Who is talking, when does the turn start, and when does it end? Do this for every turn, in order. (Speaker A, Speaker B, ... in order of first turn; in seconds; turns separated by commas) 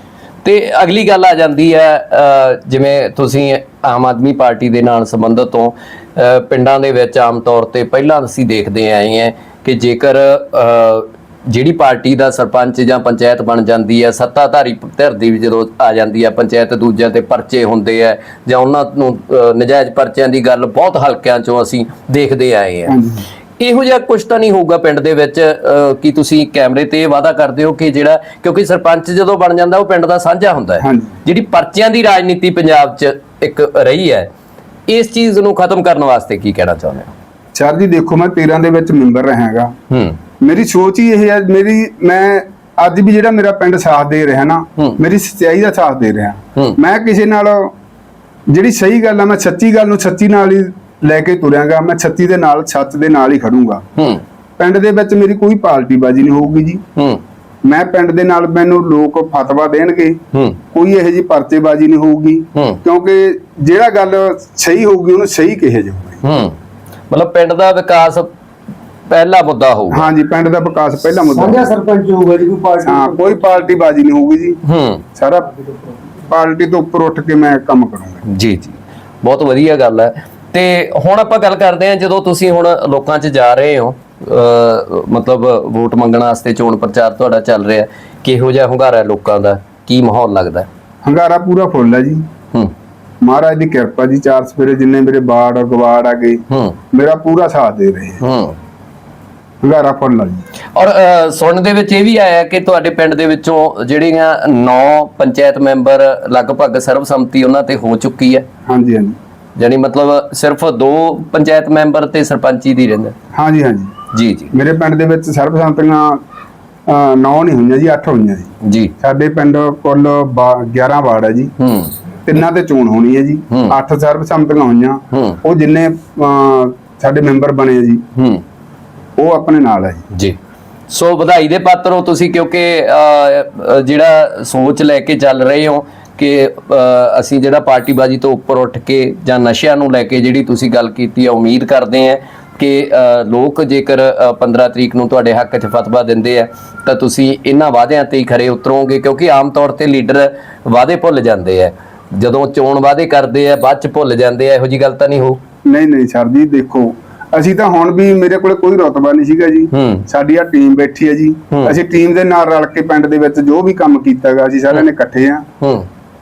Speaker A: 0.4-22.9, Speaker B: 22.9-23.2, Speaker A: 23.6-34.3, Speaker B: 30.8-31.1, Speaker A: 34.9-37.1, Speaker B: 37.5-39.7, Speaker A: 39.9-40.2, Speaker B: 40.4-47.7, Speaker B: 48.5-53.8, Speaker B: 54.6-56.8, Speaker A: 57.0-57.2, Speaker B: 57.6-60.2, Speaker A: 60.3-60.6, Speaker B: 60.7-66.2, Speaker A: 62.5-62.8, Speaker A: 66.2-66.5, Speaker A: 67.1-68.3, Speaker A: 69.1-70.1, Speaker B: 69.9-71.7, Speaker C: 71.2-73.4, Speaker B: 72.8-74.6, Speaker A: 74.6-75.0, Speaker B: 75.2-75.5, Speaker B: 76.2-78.2, Speaker A: 78.3-90.7, Speaker B: 91.0-92.2, Speaker B: 93.2-98.2, Speaker A: 96.5-96.8, Speaker A: 98.2-98.6, Speaker B: 99.6-100.5, Speaker A: 100.8-108.5, Speaker B: 108.7-109.2, Speaker A: 109.6-113.2, Speaker B: 113.3-113.9, Speaker A: 114.1-114.5, Speaker B: 114.5-116.2, Speaker B: 116.9-121.5, Speaker A: 118.6-118.9, Speaker A: 121.6-121.9, Speaker B: 122.3-128.0, Speaker A: 125.1-125.4, Speaker A: 128.2-128.4, Speaker B: 129.2-130.0, Speaker A: 130.1-130.4, Speaker A: 130.9-155.4, Speaker B: 155.7-165.5, Speaker A: 159.7-160.1, Speaker A: 165.6-165.9